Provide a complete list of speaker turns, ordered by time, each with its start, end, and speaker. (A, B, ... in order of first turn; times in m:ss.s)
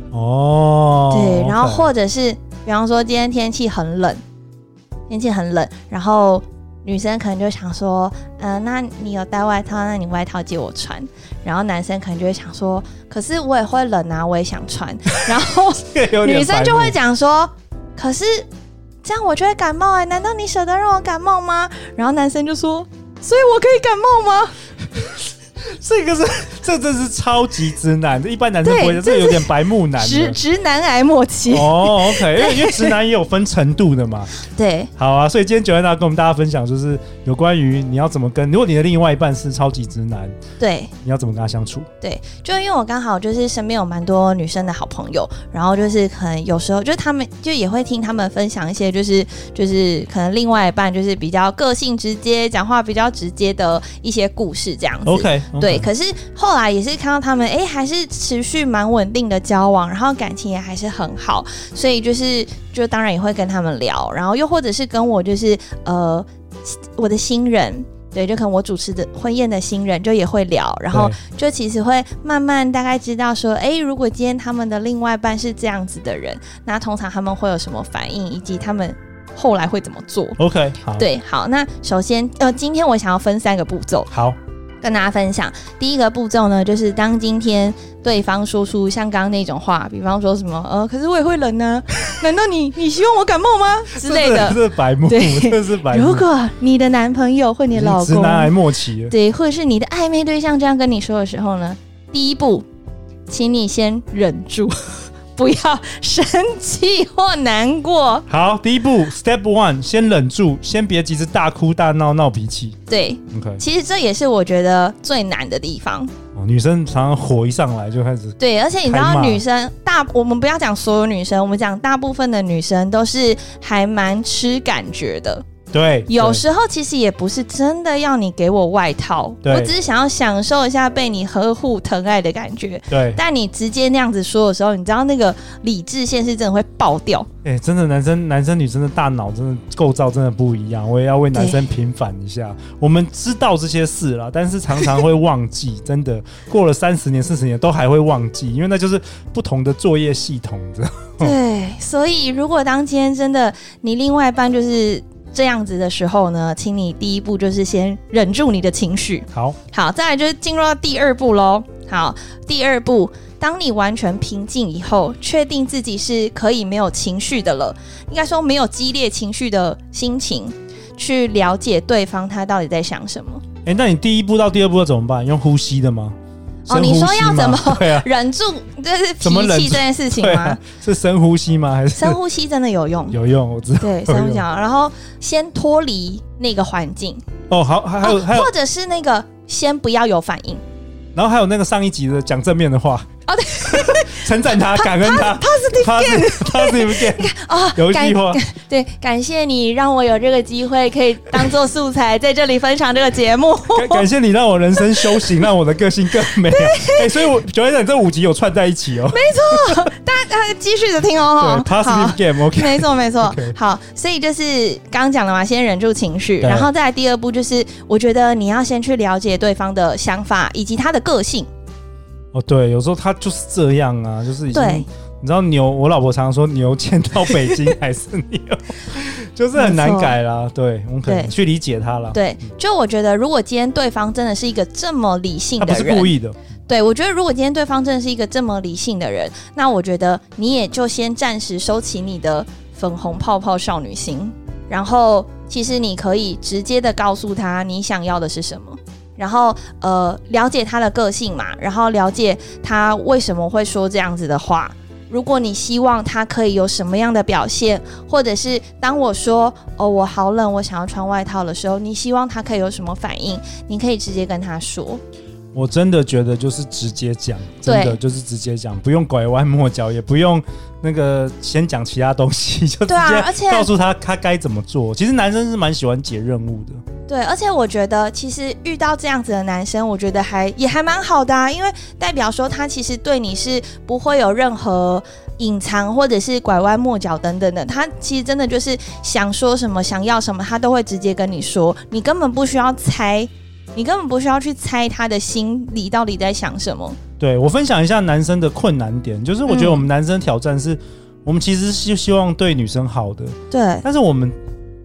0:00.1-0:01.9 A
0:01.1-0:04.2 B
0:05.1-0:18.5 B
0:15.9-0:17.0 A
0:19.0-0:24.5 B
0:25.7-0:30.4 A
0:28.6-0:32.9 B
0:31.5-0:34.3 A
0:34.5-0:34.9 B
0:35.0-0:40.4 A
0:40.6-0:40.9 B
0:41.0-0:41.9 A
0:42.0-1:20.4 B
0:55.0-0:55.9 A
1:10.9-1:11.2 A
1:20.4-1:21.1 A
1:20.9-1:24.1 B
1:24.1-1:24.4 A
1:24.8-1:38.5 B
1:33.9-1:36.3 A
1:37.7-1:39.1 A
1:39.1-1:42.6 B
1:43.3-1:48.2 B
1:48.3-1:52.8 A
1:52.9-1:56.1 B
1:53.3-1:53.6 A
1:56.3-1:59.4 A
1:58.4-2:05.4 B
2:05.7-2:06.4 A
2:06.1-2:17.3 B
2:09.4-2:09.7 A
2:12.9-2:13.2 A
2:17.4-2:31.3 A
2:21.3-2:21.6 B
2:31.2-2:53.4 B
2:39.3-2:39.6 A
2:53.6-2:56.2 A
2:56.7-3:00.6 B
2:56.7-2:58.1 A
2:59.2-3:02.2 A
3:02.0-3:03.2 B
3:03.1-3:04.4 A
3:03.8-3:07.2 B
3:07.5-3:08.5 A
3:08.0-3:10.6 B
3:11.1-3:13.1 A
3:13.3-3:24.1 B
3:13.6-3:18.4 A
3:23.7-3:29.9 A
3:24.9-3:25.3 B
3:26.2-3:27.3 B
3:29.1-3:41.5 B
3:31.4-3:33.6 A
3:36.4-3:36.7 A
3:42.3-3:52.2 A
3:44.5-3:44.9 B
3:49.5-3:50.2 B
3:51.0-3:51.3 B
3:52.1-3:56.1 B
3:55.6-3:56.4 A
3:56.7-4:25.0 B
4:25.5-4:36.8 A
4:27.6-4:28.0 B
4:32.9-4:33.7 B
4:37.1-4:57.0 B
4:57.2-5:04.4 A
4:59.5-4:59.9 B
5:03.5-5:03.8 B